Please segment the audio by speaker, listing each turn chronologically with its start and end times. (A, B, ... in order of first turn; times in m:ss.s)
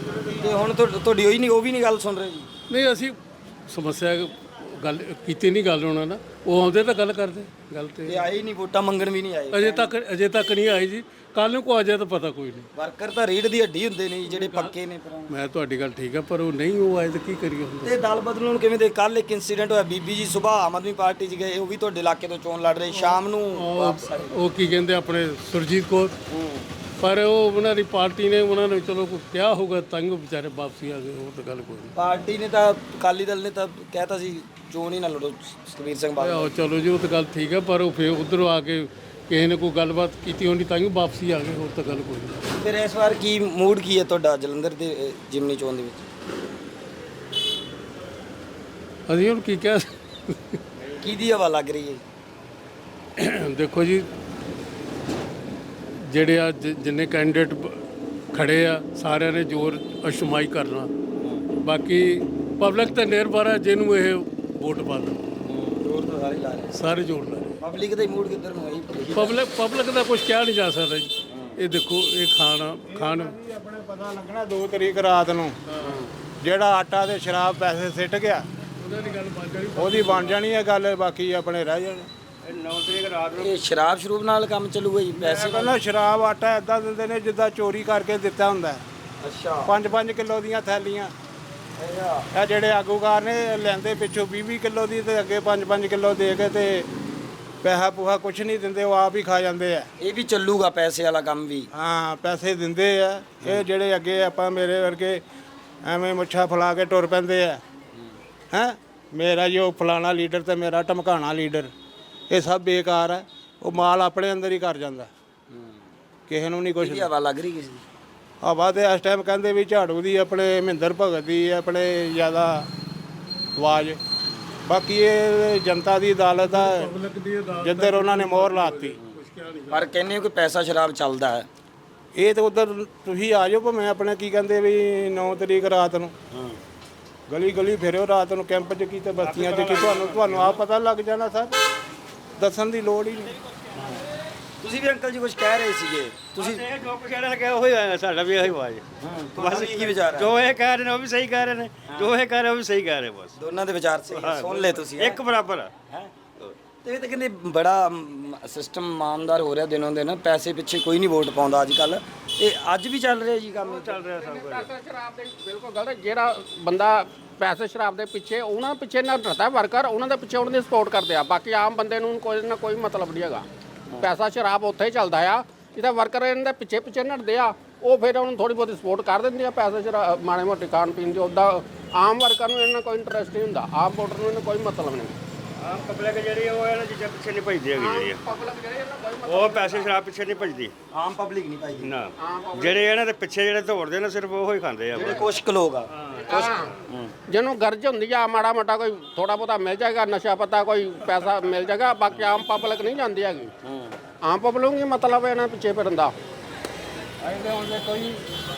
0:00.4-0:02.5 A
0:02.7-0:08.2 B
0:08.0-0:09.9 A
0:09.5-0:12.7 B
0:12.7-0:15.3 A
0:14.3-0:14.7 B
0:15.3-0:17.9 B
0:17.8-0:24.4 A
0:23.5-0:26.2 B
0:26.3-0:26.6 A
0:27.0-0:31.9 B
0:31.9-0:36.5 A
0:36.2-0:42.4 B
0:42.5-0:46.1 A
0:49.1-0:50.6 B
0:51.0-0:52.0 A
0:53.2-0:54.1 B
0:56.0-1:00.9 B
1:01.6-1:05.2 B
1:05.4-1:06.7 A
1:06.7-1:07.6 B
1:07.6-1:09.4 A
1:09.1-1:13.3 B
1:11.3-1:11.6 A
1:12.9-1:15.6 C
1:15.7-1:16.0 B
1:16.4-1:18.4 C
1:18.8-1:20.4 B
1:19.8-1:22.1 C
1:22.4-1:23.6 D
1:23.4-1:25.8 A
1:25.2-1:28.8 C
1:29.2-1:29.7 A
1:29.6-1:31.1 C
1:31.8-1:32.3 A
1:32.3-1:36.9 C
1:37.6-1:39.9 C
1:40.0-1:41.7 A
1:41.7-1:45.2 C
1:45.8-1:47.6 C
1:48.5-1:51.7 C
1:52.3-1:55.1 C
1:55.5-1:55.8 A
1:56.3-1:57.1 C
1:56.8-1:57.8 A
1:58.4-2:02.7 C
2:03.6-2:04.0 C
2:04.7-2:06.9 C
2:06.5-2:09.9 B
2:07.6-2:09.0 C
2:09.7-2:11.5 A
2:12.1-2:16.1 C
2:16.3-2:16.6 A
2:17.3-2:21.5 C
2:19.2-2:20.5 D
2:22.4-2:23.3 C
2:23.7-2:24.0 A
2:24.6-2:26.6 A
2:26.3-2:33.4 D
2:29.0-2:30.3 A
2:31.9-2:32.1 A
2:33.4-2:35.2 A
2:34.1-2:35.7 D
2:35.9-2:36.1 A
2:36.8-2:43.9 A
2:43.6-2:44.7 D
2:43.9-2:53.4 E
2:54.0-3:05.1 E
3:05.6-3:08.2 D
3:07.8-3:09.9 E
3:09.2-3:10.7 D
3:10.9-3:11.9 A
3:11.8-3:15.3 D
3:12.2-3:12.9 E
3:14.9-3:17.0 A
3:15.9-3:16.7 D
3:16.3-3:16.7 E
3:17.3-3:23.5 E
3:24.2-3:26.1 E
3:27.5-3:28.1 C